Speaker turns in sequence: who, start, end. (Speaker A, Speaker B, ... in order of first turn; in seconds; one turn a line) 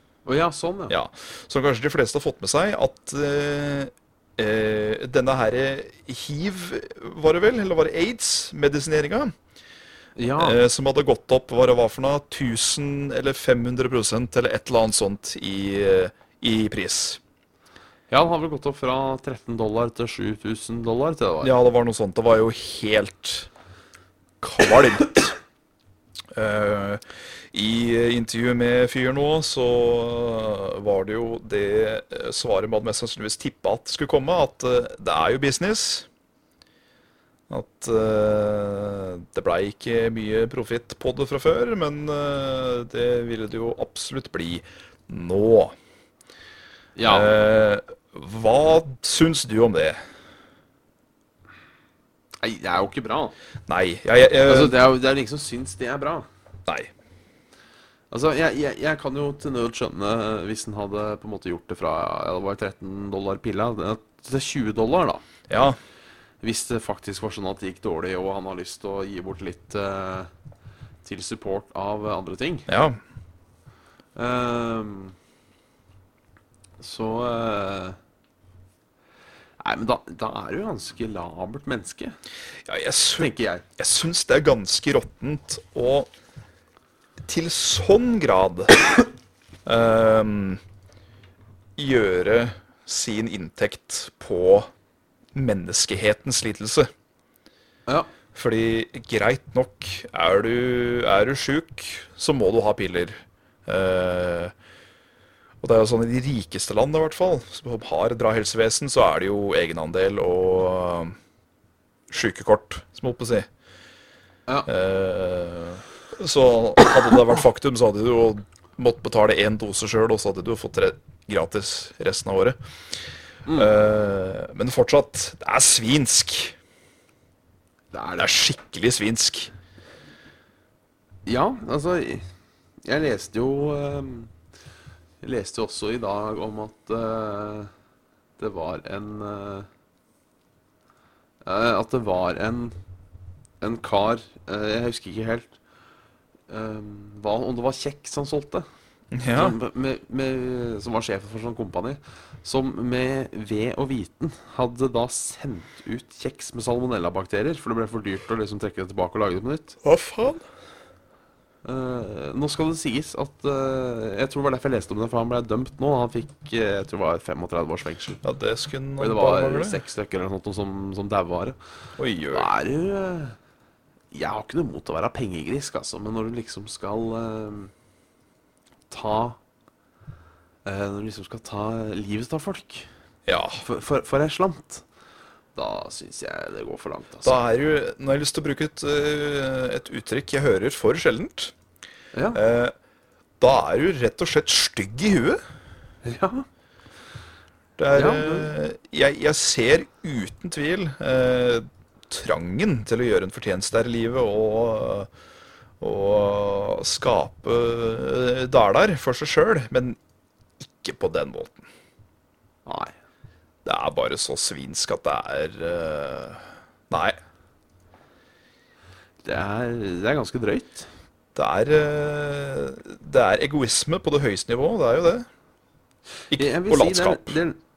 Speaker A: 0.3-0.9
Speaker B: 0.9-9.3
Speaker A: 10.2-10.6
Speaker B: 10.4-17.2
Speaker A: 18.1-21.5
Speaker B: 21.4-23.5
Speaker B: 24.4-25.4
Speaker B: 26.3-27.0
Speaker B: 27.5-36.1
Speaker B: 37.5-45.8
Speaker A: 47.0-47.4
Speaker B: 47.1-50.0
Speaker A: 52.4-53.3
Speaker B: 53.7-54.8
Speaker A: 54.5-56.3
Speaker A: 58.1-65.2
Speaker B: 65.5-65.8
Speaker A: 66.4-70.3
Speaker A: 71.0-72.7
Speaker B: 72.7-73.0
Speaker A: 74.2-75.2
Speaker A: 76.8-78.0
Speaker A: 79.6-82.2
Speaker B: 82.7-86.1
Speaker A: 83.2-83.6
Speaker B: 87.2-88.8
Speaker B: 89.7-90.6
Speaker B: 91.8-94.7
Speaker B: 95.3-96.9
Speaker B: 98.3-104.5
Speaker B: 105.6-111.2
Speaker B: 112.1-113.5
Speaker B: 114.7-122.6
Speaker A: 123.5-123.7
Speaker B: 123.5-126.5
Speaker A: 127.9-128.3
Speaker B: 128.2-129.5
Speaker A: 131.3-132.2
Speaker A: 132.8-134.3
Speaker A: 135.2-137.7
Speaker A: 138.4-139.7
Speaker A: 141.4-142.8
Speaker A: 143.6-145.6
Speaker A: 146.5-148.7
Speaker B: 149.1-149.6
Speaker A: 149.3-159.8
Speaker B: 159.8-160.4
Speaker A: 161.6-168.2
Speaker B: 168.2-169.8
Speaker A: 169.0-171.6
Speaker B: 172.0-172.5
Speaker A: 172.3-173.4
Speaker A: 174.1-177.7
Speaker A: 178.9-179.4
Speaker A: 180.7-182.9
Speaker B: 183.3-183.6
Speaker A: 183.6-184.8
Speaker A: 185.6-187.4
Speaker B: 187.2-191.5
Speaker A: 192.1-192.4
Speaker B: 192.3-192.7
Speaker B: 193.4-195.4
Speaker A: 196.0-196.5
Speaker B: 197.8-205.1
Speaker A: 197.9-198.5
Speaker B: 205.8-210.0
Speaker B: 210.6-211.7
Speaker A: 212.7-212.9
Speaker B: 213.7-217.2
Speaker A: 219.2-220.9
Speaker B: 221.3-225.3
Speaker B: 226.3-227.4
Speaker A: 226.3-227.6